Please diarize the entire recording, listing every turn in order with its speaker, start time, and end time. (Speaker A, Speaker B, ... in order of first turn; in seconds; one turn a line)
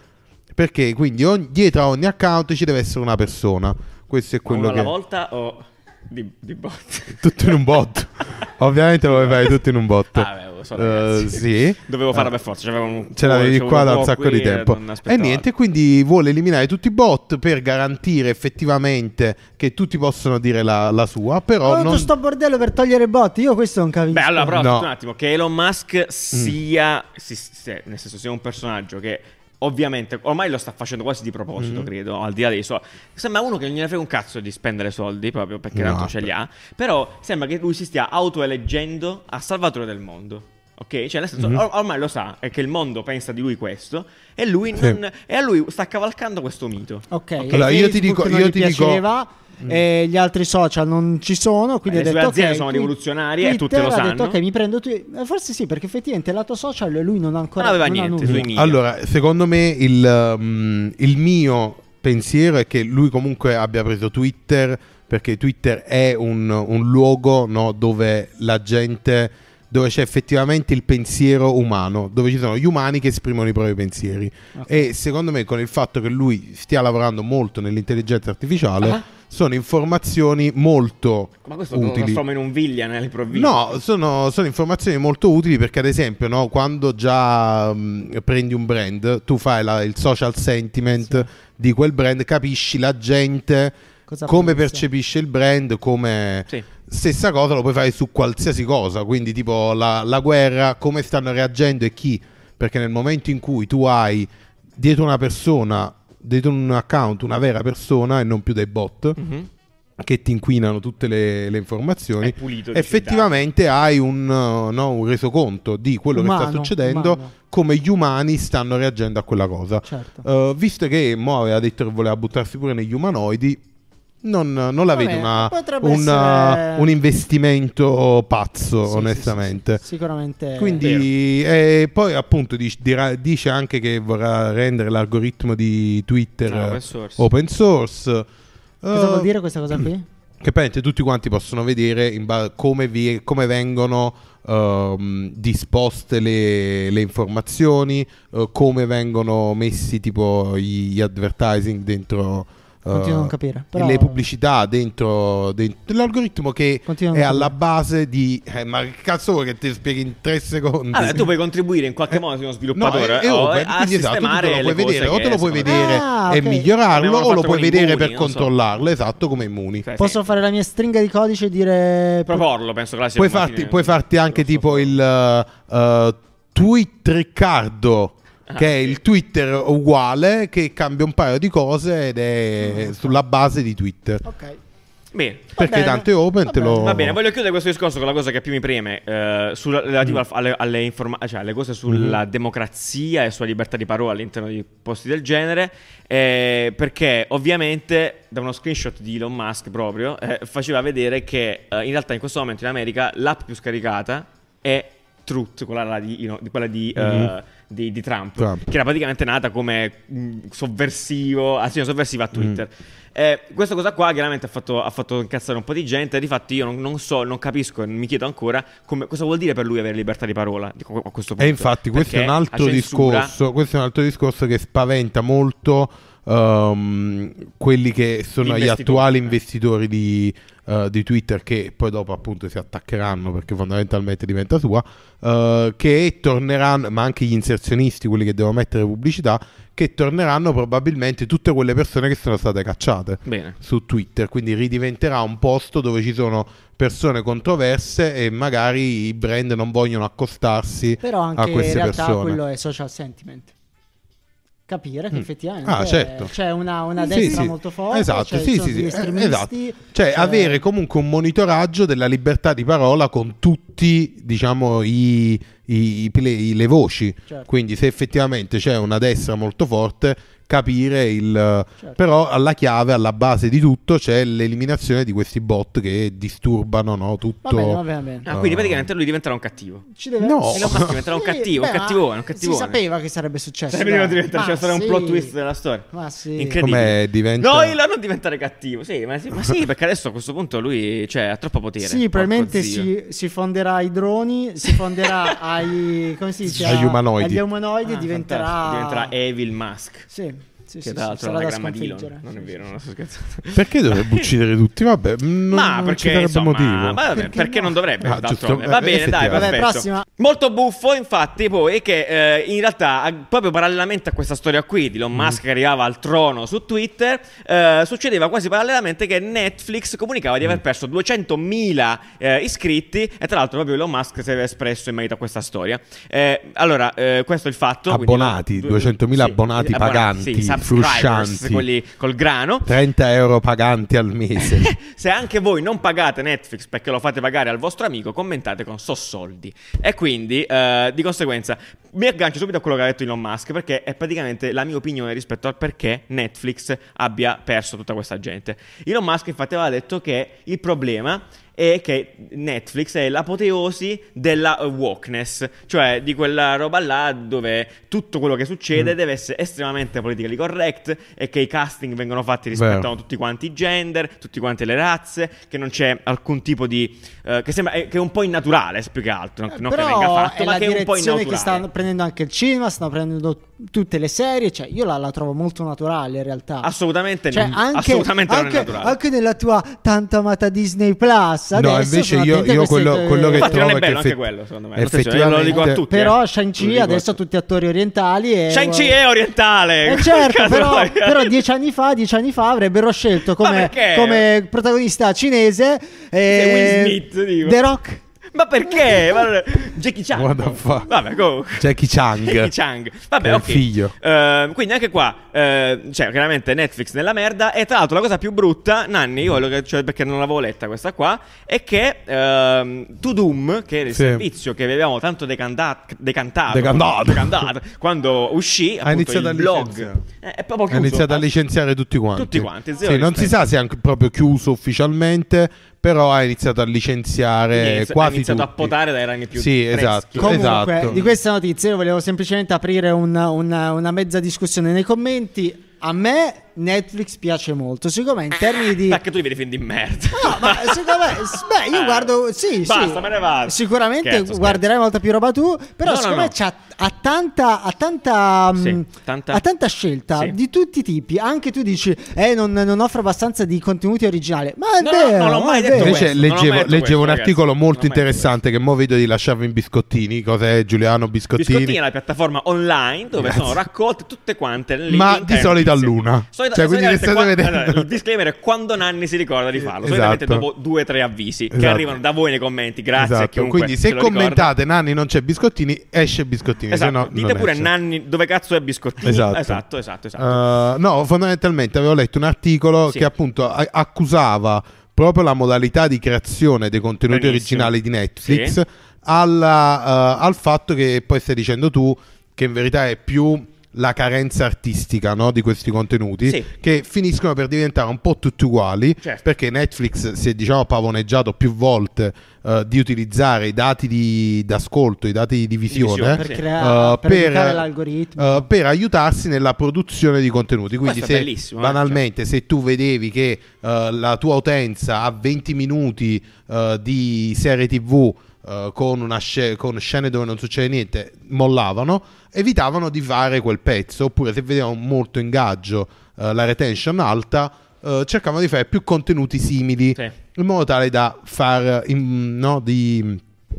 Speaker A: 0.5-4.9
Speaker B: 4.5-7.7
Speaker A: 7.1-12.3
Speaker B: 9.0-9.6
Speaker B: 10.1-15.4
Speaker A: 13.1-22.1
Speaker C: 21.6-24.6
Speaker B: 24.1-47.6
Speaker A: 24.5-24.9
Speaker A: 31.6-31.9
Speaker A: 35.7-36.3
Speaker A: 41.4-41.6
Speaker C: 47.1-58.5
Speaker A: 47.5-49.0
Speaker B: 51.9-54.4
Speaker B: 57.6-58.8
Speaker A: 58.2-82.2
Speaker C: 74.5-74.9
Speaker B: 81.4-83.8
Speaker A: 83.3-93.7
Speaker C: 94.1-94.8
Speaker A: 94.2-109.2
Speaker B: 109.2-109.5
Speaker A: 110.0-123.6
Speaker B: 112.2-113.4
Speaker C: 116.1-117.3
Speaker C: 119.8-120.2
Speaker A: 124.2-129.8
Speaker C: 124.9-126.9
Speaker C: 128.8-130.9
Speaker A: 130.6-138.3
Speaker B: 130.8-131.1
Speaker B: 136.4-137.3
Speaker A: 138.8-139.9
Speaker C: 138.9-140.0
Speaker A: 140.4-161.3
Speaker C: 152.9-154.2
Speaker C: 156.8-157.5
Speaker B: 160.9-166.0
Speaker A: 162.7-169.8
Speaker C: 165.7-166.7
Speaker B: 166.9-168.5
Speaker B: 169.8-170.3
Speaker C: 170.0-172.4
Speaker B: 172.3-175.0
Speaker A: 173.2-184.2
Speaker B: 178.5-179.0
Speaker C: 182.7-183.0
Speaker C: 184.2-184.6
Speaker B: 185.1-185.6
Speaker C: 185.6-186.9
Speaker A: 185.6-187.2
Speaker B: 186.8-223.3
Speaker A: 191.9-192.2
Speaker A: 206.9-207.3
Speaker A: 208.4-208.6
Speaker A: 212.3-212.6
Speaker A: 221.4-252.4
Speaker B: 228.4-229.3
Speaker B: 243.2-243.6
Speaker C: 251.0-253.5
Speaker C: 254.7-260.6
Speaker A: 255.1-256.3
Speaker A: 257.0-278.9
Speaker C: 277.4-278.3
Speaker B: 278.2-279.9
Speaker C: 279.9-285.3
Speaker A: 280.2-281.0
Speaker B: 280.5-282.8
Speaker B: 283.7-292.9
Speaker C: 285.9-286.6
Speaker A: 286.6-287.8
Speaker C: 291.8-299.1
Speaker B: 294.7-295.4
Speaker A: 296.5-297.4
Speaker B: 296.6-296.9
Speaker B: 297.8-300.1
Speaker C: 300.1-302.5
Speaker B: 300.8-304.3
Speaker A: 303.5-307.0
Speaker B: 305.5-332.7
Speaker C: 307.1-307.8
Speaker A: 308.0-309.6
Speaker C: 309.3-310.0
Speaker A: 327.9-331.6
Speaker A: 332.6-334.7
Speaker B: 334.4-371.6
Speaker A: 362.5-362.9
Speaker C: 369.5-376.7
Speaker B: 376.6-379.0
Speaker C: 377.3-383.6
Speaker A: 381.5-384.2
Speaker B: 383.4-387.1
Speaker A: 384.8-385.8
Speaker C: 385.5-389.0
Speaker B: 388.5-391.4
Speaker C: 389.8-398.0
Speaker B: 393.3-394.3
Speaker B: 396.3-397.6
Speaker B: 398.3-421.3
Speaker A: 400.1-400.9
Speaker A: 401.6-402.5
Speaker A: 403.2-403.9
Speaker A: 413.9-414.2
Speaker A: 416.5-417.5
Speaker A: 418.8-420.0
Speaker A: 420.7-428.7
Speaker B: 422.1-423.4
Speaker B: 427.5-431.2
Speaker A: 429.3-431.0
Speaker C: 430.2-439.0
Speaker B: 438.8-442.1
Speaker C: 440.1-456.1
Speaker B: 442.6-444.6
Speaker B: 445.8-446.3
Speaker B: 448.6-449.4
Speaker B: 450.1-450.4
Speaker B: 454.8-458.4
Speaker A: 455.7-461.8
Speaker B: 461.3-474.5
Speaker A: 463.2-463.6
Speaker A: 464.9-467.9
Speaker A: 469.6-470.4
Speaker A: 471.5-472.0
Speaker A: 472.9-477.7
Speaker B: 476.7-480.4
Speaker A: 479.0-479.6
Speaker A: 480.2-507.6
Speaker B: 487.1-488.6
Speaker B: 505.7-506.5
Speaker C: 506.1-508.4
Speaker A: 508.2-533.2
Speaker B: 510.8-512.0